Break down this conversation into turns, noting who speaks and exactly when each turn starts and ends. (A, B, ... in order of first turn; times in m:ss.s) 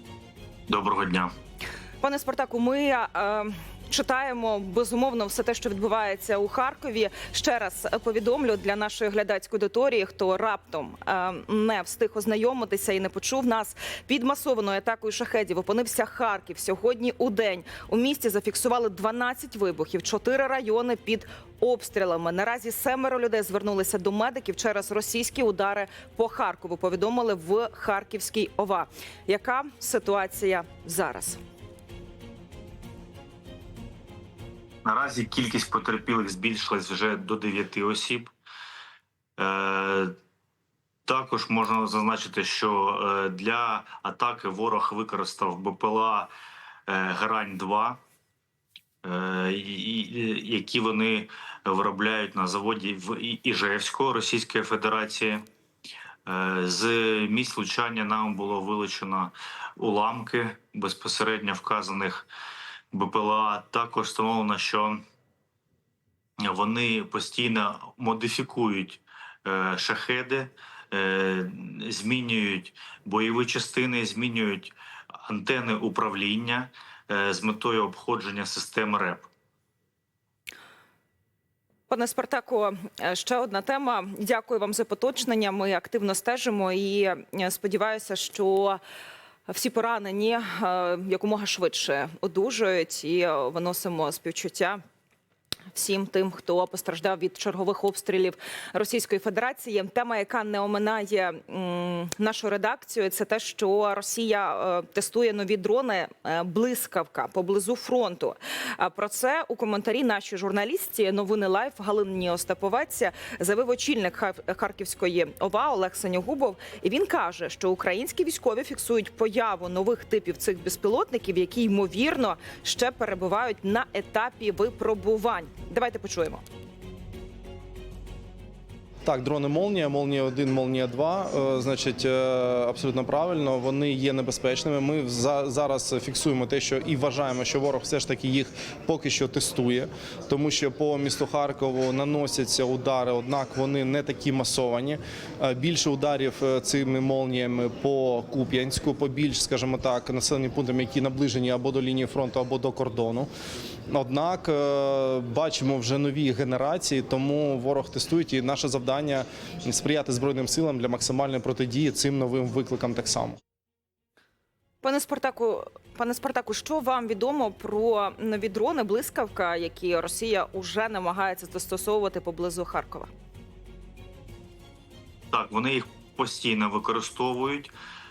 0:00.7-0:01.3 A
0:02.0-0:31.4 B
0:34.8-0:38.3 A
0:39.4-0:40.1 A
0:41.1-0:46.3 A
0:46.9-0:48.0 A
0:49.0-0:55.4 A
0:56.3-1:02.3 A
1:02.9-1:05.0 A
1:06.4-1:19.3 A
1:21.9-1:28.8 B
1:29.5-1:34.8 B
1:35.7-2:06.4 B
2:09.0-2:33.3 C
2:33.9-2:43.4 C
2:44.8-2:53.1 B
2:55.3-2:57.7 A